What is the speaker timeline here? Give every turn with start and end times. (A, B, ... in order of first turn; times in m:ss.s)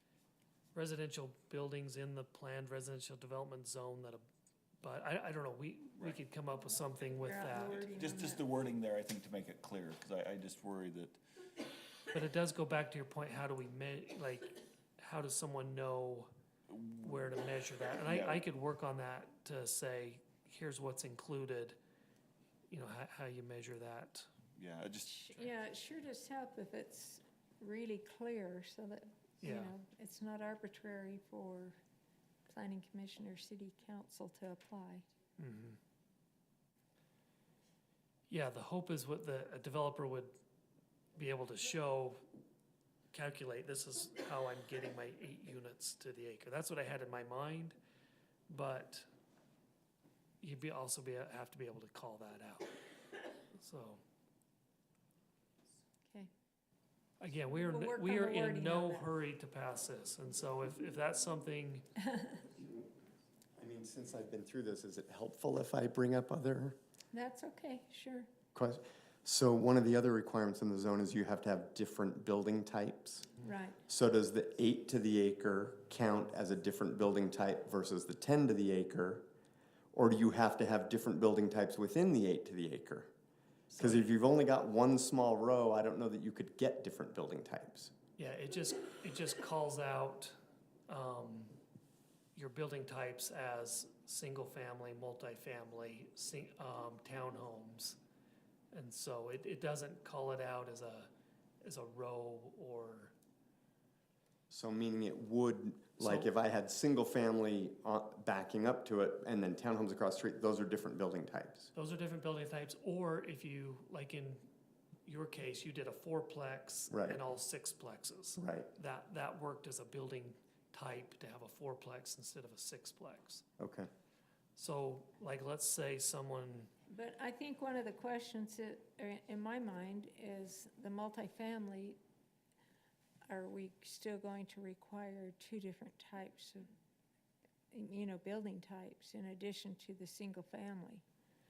0:00.7-0:04.2 A
0:04.8-0:07.8 A
0:07.2-0:08.4 B
0:07.6-0:11.2 C
0:12.1-0:16.3 A
0:16.7-0:17.2 C
0:17.0-0:21.8 A
0:18.0-0:18.4 C
0:22.7-0:24.3 A
0:24.6-0:25.2 C
0:25.0-0:31.8 B
0:29.4-0:29.7 A
0:32.5-0:35.0 B
0:35.4-0:35.8 A
0:38.3-0:40.4 A
0:41.1-0:42.2 A
0:43.1-0:47.8 A
0:48.5-0:49.1 A
0:50.4-0:52.7 A
0:53.5-0:54.0 A
0:57.2-1:01.8 A
0:57.5-0:59.1 B
1:03.6-1:06.8 D
1:07.1-1:08.3 B
1:08.5-1:13.3 D
1:13.4-1:13.8 B
1:13.8-1:19.2 D
1:19.9-1:23.1 D
1:23.7-1:24.1 A
1:23.8-1:27.9 D
1:28.2-1:30.4 A
1:30.9-1:31.6 A
1:32.3-1:38.0 A
1:38.7-1:41.1 A
1:41.6-1:43.1 A
1:44.5-1:51.7 D
1:46.0-1:46.3 A
1:51.7-1:54.4 A
1:55.0-2:03.4 A
1:56.9-1:57.2 D
1:58.4-1:58.7 D
2:03.6-2:03.9 D
2:04.6-2:06.7 A
2:06.9-2:12.0 B
2:13.3-2:16.7 B
2:17.7-2:21.0 B